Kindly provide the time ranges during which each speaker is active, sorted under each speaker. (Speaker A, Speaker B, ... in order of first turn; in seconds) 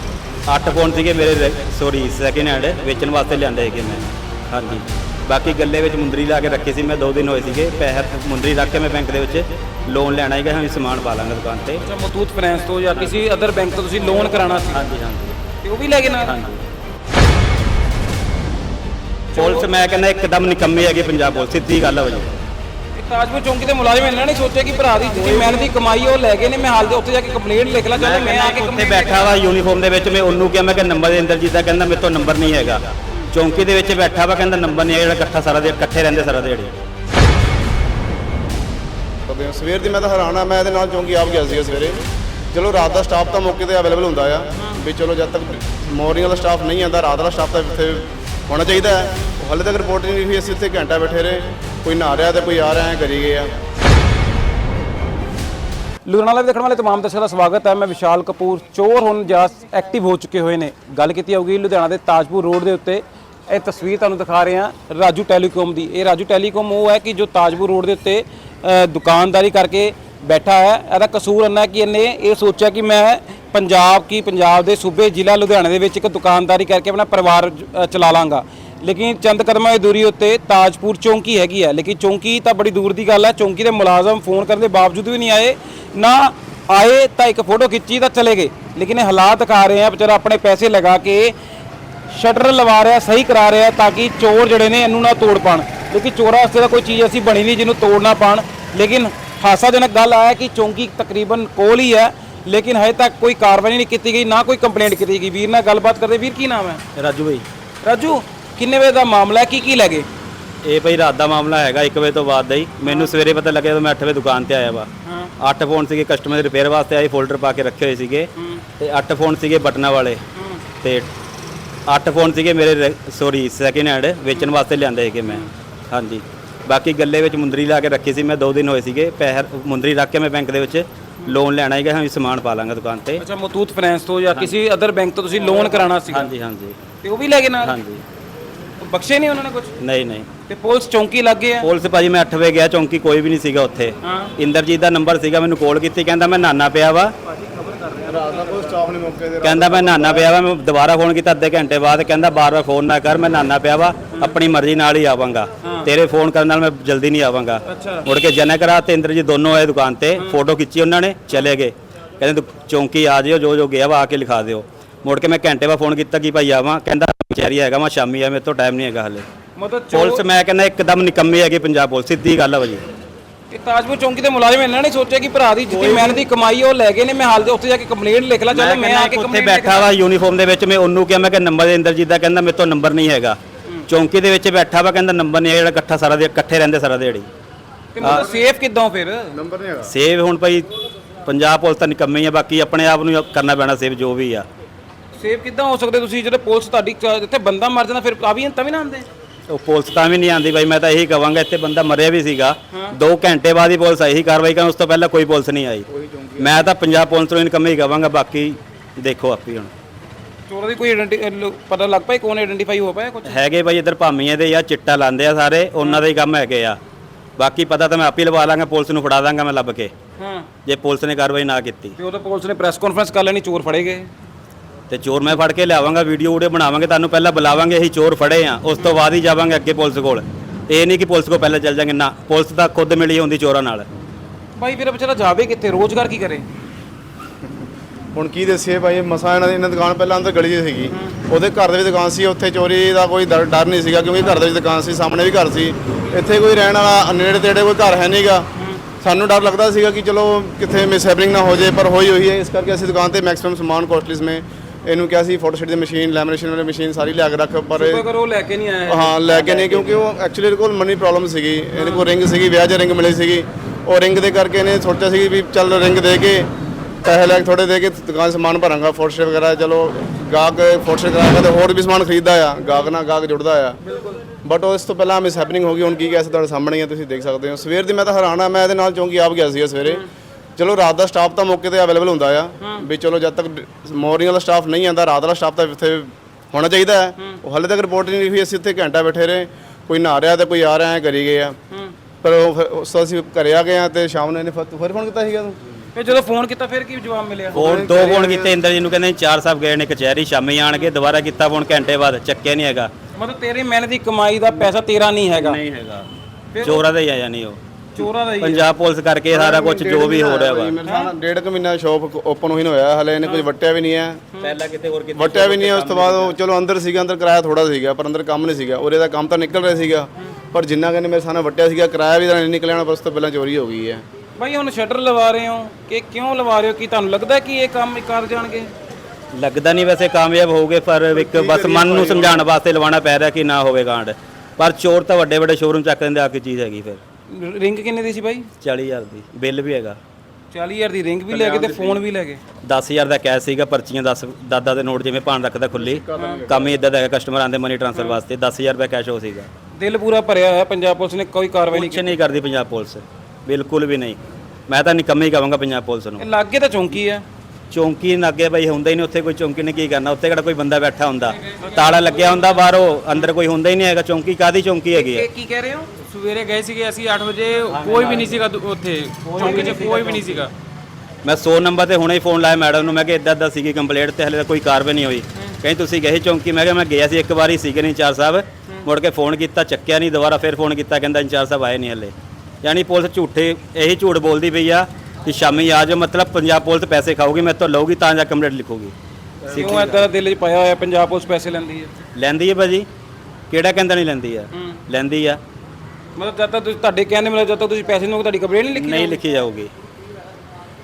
Speaker A: 0.5-11.8, 14.7-15.3, 16.2-16.6, 19.3-22.4, 27.9-36.7, 107.0-107.4, 110.6-114.9, 115.4-120.2, 120.8-121.1, 121.9-133.2, 135.9-136.8, 137.6-138.0, 139.8-140.3, 141.6-147.1, 149.4-169.2, 169.9-172.8, 175.7-176.2, 178.5-187.3, 189.8-190.7, 191.2-194.5, 199.5-205.8, 206.4-209.7, 213.2-216.8, 217.4-219.9, 220.7-221.9, 224.9-233.9, 297.5-302.9, 305.3-306.1, 306.6-307.6, 308.4-310.7, 314.4-316.4, 329.3-337.0, 338.6-340.0, 342.6-349.5, 351.7-356.2, 357.7-365.2, 367.7-368.4, 369.3-370.2, 371.2-388.9, 389.5-390.0, 392.1-392.9, 393.5-395.4, 398.7-399.7
Speaker B: 11.8-14.8, 15.6-16.4, 19.3-19.7, 22.9-29.3, 56.0-91.3, 92.1-106.8, 107.8-110.1, 112.8-113.1, 115.0-115.3, 118.4-118.6, 120.3-120.6, 133.2-136.3, 137.0-137.7, 138.8-139.7, 140.5-141.7, 144.0-144.3, 147.4-148.6, 154.1-154.4, 155.6-155.9, 157.7-158.1, 169.6-170.2, 173.5-179.9, 187.9-189.3, 195.2-199.1, 210.5-213.4, 220.2-220.5, 222.0-224.1, 234.6-236.4, 240.9-241.2, 248.6-248.8, 257.7-260.0, 261.7-262.1, 273.9-274.2, 282.6-282.9, 295.9-297.6, 303.1-305.6, 306.5-306.8, 307.9-308.7, 310.8-311.1, 324.4-328.7, 337.3-338.5, 340.5-342.4, 346.1-346.4, 347.9-348.2, 349.8-352.1, 356.2-357.2, 361.4-363.3, 364.9-366.1, 368.0-368.4, 369.2-370.5, 389.5-391.9, 394.5-394.8, 396.1-399.2
Speaker C: 39.3-53.5, 148.1-150.3, 189.3-189.9, 205.9-206.6, 238.1-248.5, 249.0-258.0, 258.9-266.5, 267.0-273.8, 274.4-280.0, 280.6-291.6, 292.2-295.6, 297.5-298.6, 309.3-314.2, 315.1-324.0, 331.1-332.5, 341.3-342.0, 345.7-346.8, 389.4-390.0
Speaker D: 366.1-370.5